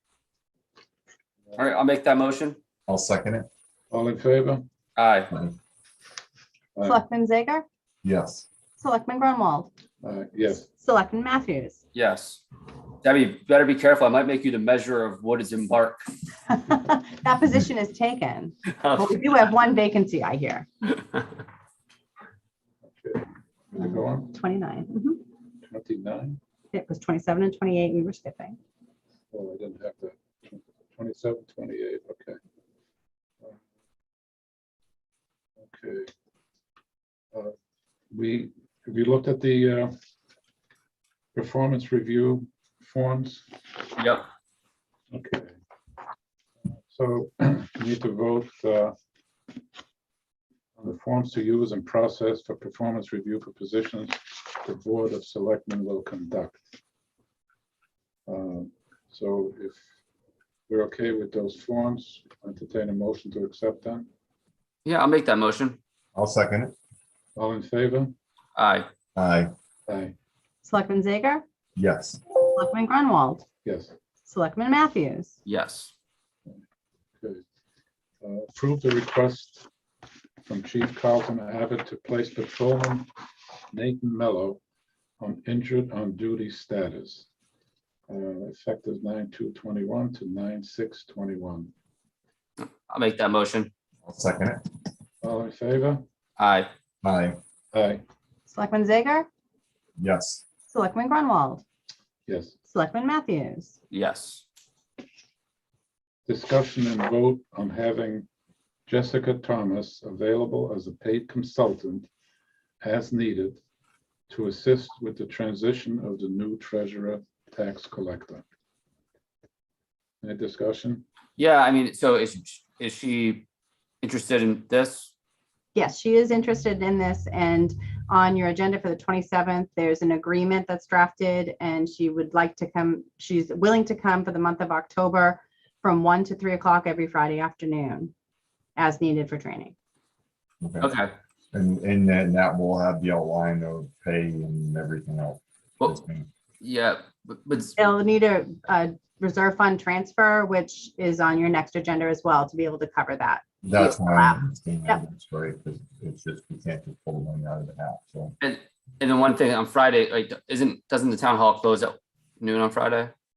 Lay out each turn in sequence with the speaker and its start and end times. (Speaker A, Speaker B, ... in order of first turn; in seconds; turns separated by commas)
Speaker A: 1.6-2.6, Speaker B: 2.9-3.5, Speaker C: 3.9-4.6, Speaker A: 5.0-5.3, Speaker B: 5.3-5.5, Speaker C: 6.8-7.0, Speaker D: 6.8-7.6, Speaker B: 8.0-8.5, Speaker D: 8.8-9.7, Speaker C: 10.0-10.7, Speaker D: 10.8-11.8, Speaker A: 11.9-12.4, Speaker A: 13.0-16.0, Speaker D: 16.5-20.7, Speaker A: 18.7-19.2, Speaker C: 22.9-24.3, Speaker D: 24.3-25.2, Speaker C: 25.6-26.4, Speaker D: 26.7-28.6, Speaker C: 29.3-32.4, Speaker C: 35.6-36.1, Speaker C: 38.1-39.9, Speaker C: 41.3-43.5, Speaker A: 44.0-44.2, Speaker C: 45.1-45.5, Speaker C: 46.9-49.0, Speaker C: 50.8-56.6, Speaker C: 58.3-59.9, Speaker C: 60.7-64.1, Speaker A: 64.8-65.8, Speaker B: 66.2-66.8, Speaker C: 67.4-68.1, Speaker A: 68.6-68.9, Speaker B: 69.2-69.5, Speaker C: 69.9-70.1, Speaker D: 70.6-71.4, Speaker B: 71.8-72.2, Speaker D: 72.4-73.5, Speaker C: 73.7-74.0, Speaker D: 74.3-75.4, Speaker A: 75.5-75.9, Speaker C: 78.2-79.7, Speaker C: 80.4-83.1, Speaker C: 83.7-84.6, Speaker C: 85.2-87.3, Speaker C: 88.1-91.7, Speaker A: 92.6-93.7, Speaker B: 94.0-94.6, Speaker C: 95.2-96.0, Speaker A: 96.4-96.7, Speaker B: 97.0-97.4, Speaker C: 97.7-98.0, Speaker D: 98.5-99.3, Speaker B: 100.0-100.4, Speaker D: 100.7-101.6, Speaker C: 102.3-102.6, Speaker D: 102.7-103.8, Speaker A: 103.9-104.4, Speaker C: 106.3-108.3, Speaker C: 108.9-112.1, Speaker C: 112.8-113.6, Speaker C: 114.3-118.4, Speaker C: 120.2-121.0, Speaker A: 121.4-123.5, Speaker A: 124.0-125.1, Speaker D: 125.8-138.1, Speaker D: 138.8-139.7, Speaker B: 140.6-140.9, Speaker A: 140.8-141.1, Speaker B: 141.5-146.3, Speaker A: 146.6-147.8, Speaker D: 147.8-155.0, Speaker B: 153.6-158.3, Speaker A: 158.4-163.1